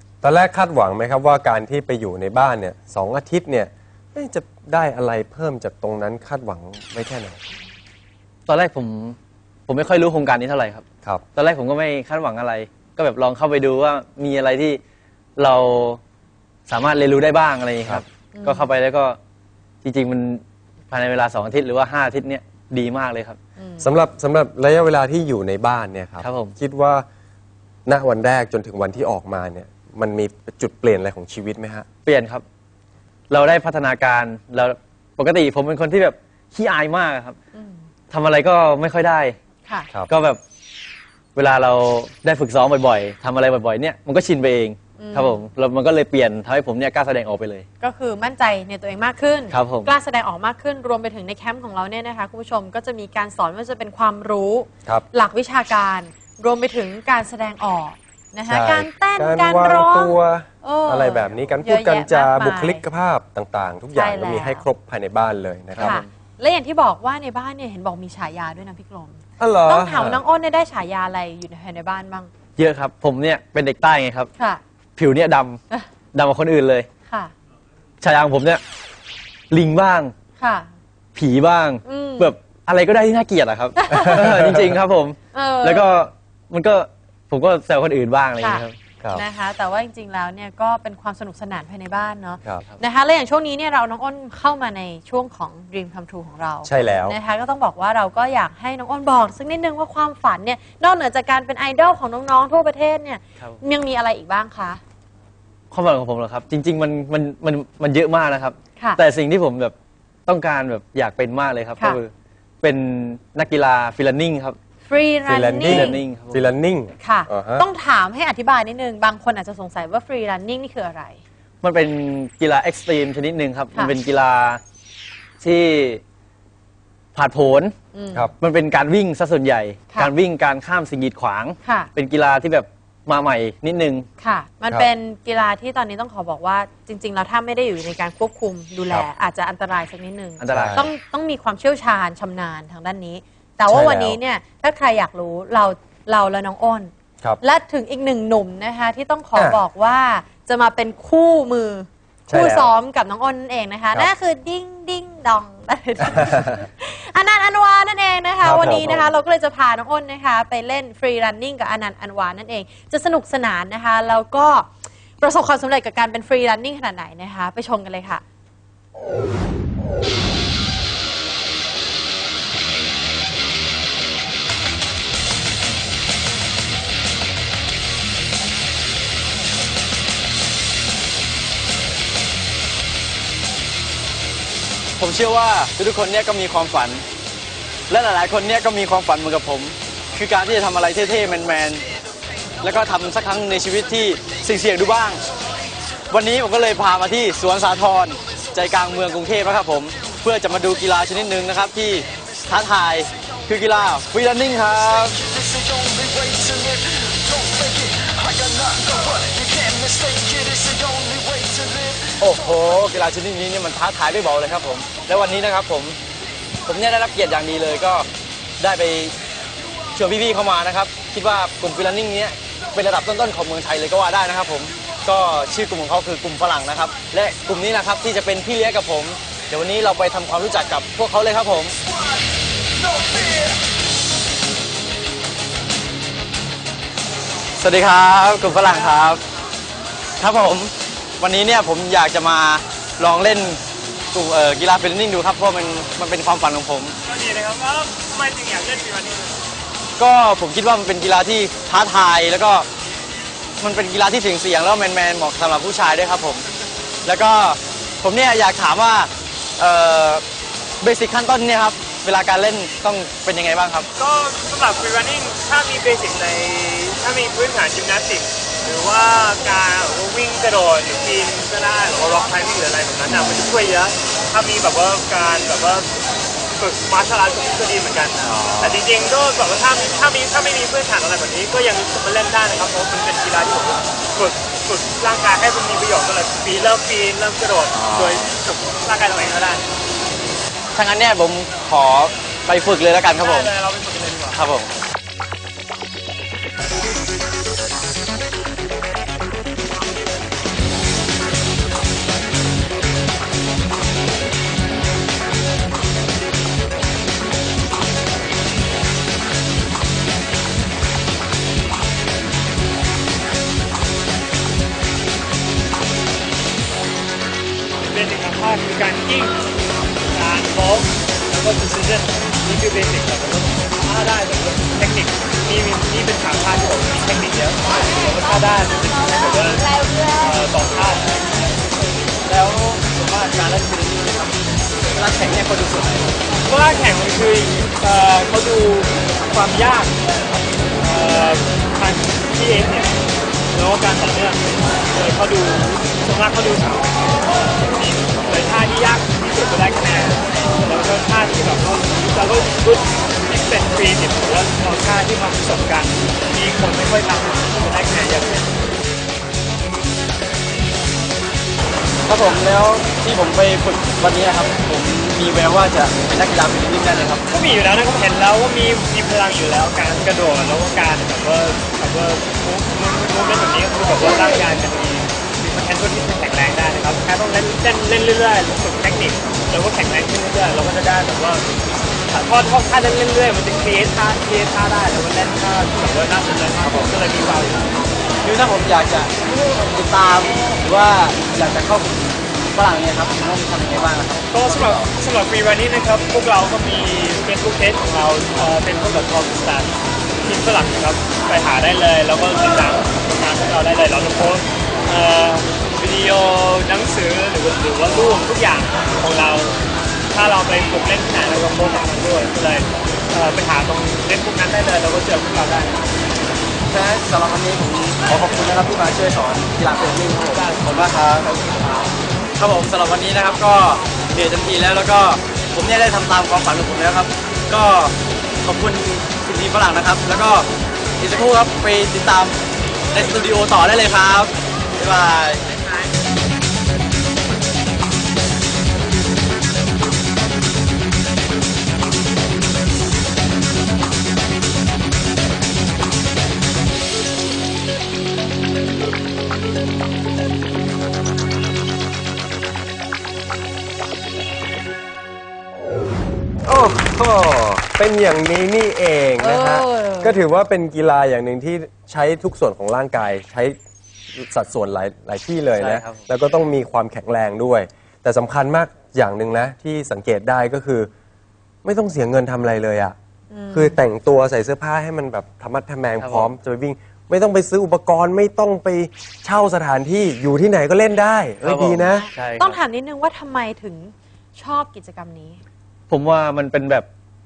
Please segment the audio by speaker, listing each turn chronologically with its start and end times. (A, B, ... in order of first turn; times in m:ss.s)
0:00.2-0:07.4 A
0:08.5-0:14.8 B
0:15.4-0:16.0 B
0:16.7-0:19.2 B
0:18.3-0:18.7 C
0:19.8-0:23.4 B
0:23.6-0:23.9 C
0:23.8-0:27.1 A
0:26.2-0:26.6 B
0:27.9-0:31.9 A
0:32.1-0:32.4 B
0:33.3-0:37.4 B
0:37.5-0:37.8 C
0:38.1-0:39.4 B
0:40.1-0:40.4 B
0:41.4-0:47.7 B
0:45.0-0:45.4 C
0:47.8-1:02.8 C
0:49.5-0:49.9 B
0:58.5-1:06.0 A
1:03.9-1:04.6 C
1:05.8-1:06.1 B
1:05.8-1:12.3 C
1:09.4-1:10.2 A
1:12.6-1:14.3 B
1:15.0-1:15.6 B
1:16.1-1:16.9 B
1:17.1-1:17.3 C
1:18.0-1:18.6 B
1:19.5-1:20.1 B
1:20.4-1:20.7 C
1:21.2-1:28.8 B
1:21.8-1:22.3 C
1:23.8-1:24.3 C
1:24.0-1:24.8 A
1:25.3-1:25.9 C
1:29.1-1:44.8 C
1:36.6-1:37.2 A
1:45.7-1:49.7 B
1:50.3-1:52.1 B
1:52.6-1:54.6 B
1:54.9-1:56.0 C
1:55.3-1:57.6 A
1:55.6-1:56.4 B
1:57.0-2:01.2 C
2:01.6-2:04.6 B
2:05.4-2:06.0 B
2:07.2-2:07.8 B
2:07.9-2:08.3 C
2:08.4-2:14.1 B
2:11.6-2:11.9 C
2:14.2-2:26.9 C
2:20.4-2:20.8 B
2:20.5-2:20.9 A
2:23.7-2:24.2 A
2:27.4-2:44.7 C
2:29.4-2:29.6 A
2:32.3-2:32.7 A
2:36.2-2:36.4 A
2:38.4-2:39.1 A
2:45.2-2:48.2 C
3:05.0-3:07.0 B
3:07.9-3:11.8 B
3:12.6-3:15.2 B
3:16.1-3:36.0 B
3:36.7-3:38.1 B
3:38.6-3:39.1 B
3:40.0-3:51.8 B
3:57.6-3:59.2 B
3:58.6-3:58.9 D
4:00.2-4:03.6 B
4:04.1-4:06.9 B
4:07.1-4:09.4 D
4:10.0-4:12.7 B
4:13.6-4:16.4 B
4:17.0-4:20.2 B
4:20.8-4:23.9 B
4:24.0-4:36.0 D
4:33.1-4:33.4 B
4:36.6-4:49.7 D
4:38.2-4:38.9 B
4:47.7-4:48.3 B
4:50.8-4:53.5 B
4:53.2-4:54.4 D
4:54.3-4:54.8 B
5:17.9-5:19.4 D
5:20.1-5:31.4 D
5:32.3-5:36.1 B
5:36.4-5:40.0 D
5:40.8-5:42.9 D
5:43.5-5:58.5 D
6:02.1-6:07.2 B
6:07.3-6:21.5 D
6:22.1-6:27.7 D
6:26.6-6:26.9 B
6:28.2-6:34.9 B
6:34.3-6:39.7 D
6:40.2-6:49.6 D
6:50.1-6:55.9 D
6:56.7-7:01.3 B
7:00.4-7:01.9 D
7:02.4-7:10.5 B
7:11.0-7:12.4 B
7:12.9-7:15.5 B
7:36.5-7:43.6 A
7:39.2-7:40.2 C
7:44.1-7:50.9 A
7:45.6-7:46.1 B
7:51.6-7:53.0 A
7:53.3-7:53.8 C
7:53.5-8:02.1 A
7:56.0-7:56.3 B
8:01.4-8:02.6 B
8:01.9-8:05.4 C
8:05.9-8:06.9 B